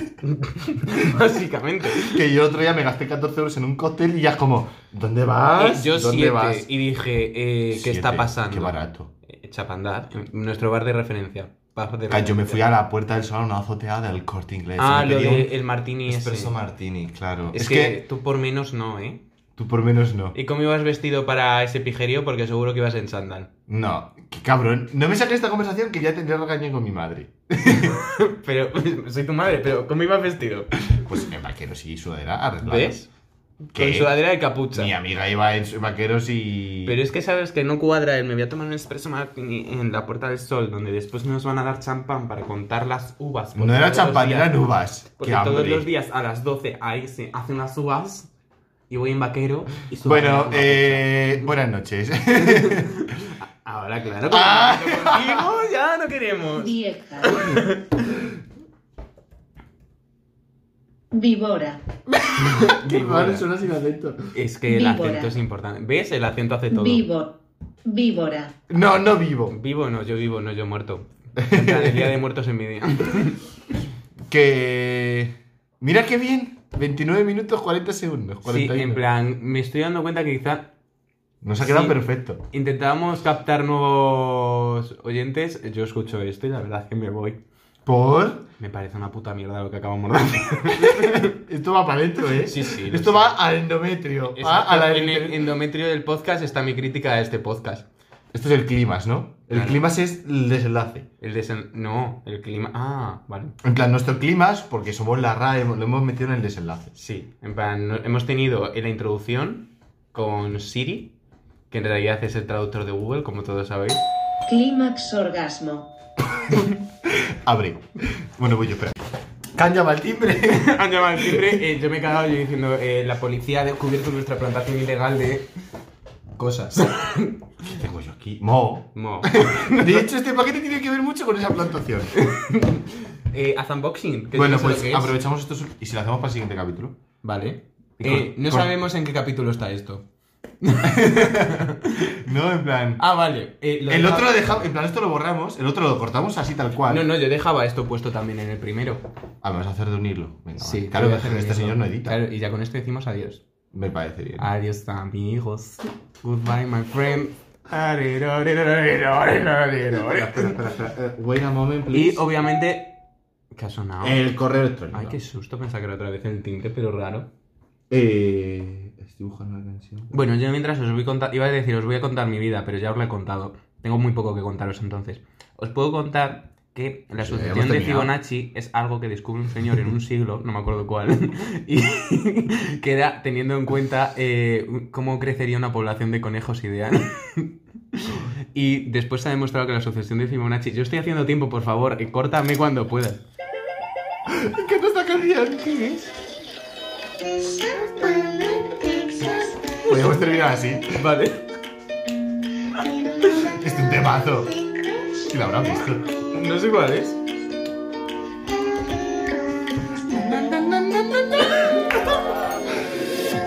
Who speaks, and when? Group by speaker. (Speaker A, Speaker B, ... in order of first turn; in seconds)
Speaker A: 0.2-2.2, 5.6-8.7, 9.2-12.6, 14.8-16.6, 17.5-19.2, 20.3-23.5, 27.6-30.7, 32.6-33.1, 33.7-34.9, 36.9-44.6, 45.2-48.3, 48.9-51.5, 52.3-58.2, 62.4-63.5, 64.3-67.1, 69.5-73.4, 78.4-80.7, 81.6-87.4, 88.6-91.4, 92.4-93.4, 94.3-97.9, 99.5-99.8, 101.2-103.5, 106.9-111.1, 111.7-114.0, 120.4-125.5, 126.3-127.7, 128.9-130.1, 132.1-135.1, 137.2-140.0, 140.6-142.2, 143.0-144.7, 146.9-149.0, 150.6-153.4, 154.4-160.6, 161.9-162.9, 163.5-164.2, 164.9-167.3, 170.1-193.2, 200.9-201.4, 206.3-207.2
Speaker B: 1.9-6.7, 7.7-9.1, 12.1-15.5, 16.1-18.0, 19.6-20.4, 23.7-28.0, 30.9-33.0, 33.7-34.2, 34.7-37.0, 43.5-45.9, 50.0-53.1, 54.3-55.5, 62.1-64.3, 68.7-69.5, 71.3-72.1, 74.3-79.0, 81.4-82.4, 87.8-88.5, 90.8-95.5, 98.3-101.1, 103.6-106.9, 116.5-121.6, 127.6-132.1, 134.3-136.9, 138.0-138.8, 140.8-143.0, 143.9-147.1, 149.4-152.2, 153.7-154.5, 160.0-162.3, 164.0-165.2, 167.9-170.2, 177.2-178.1, 194.3-196.1, 197.4-201.0, 203.3-204.6, 205.1-206.1, 209.2-213.0
Speaker C: 56.5-57.6, 61.1-61.8, 64.7-65.3, 66.7-68.6, 114.5-115.9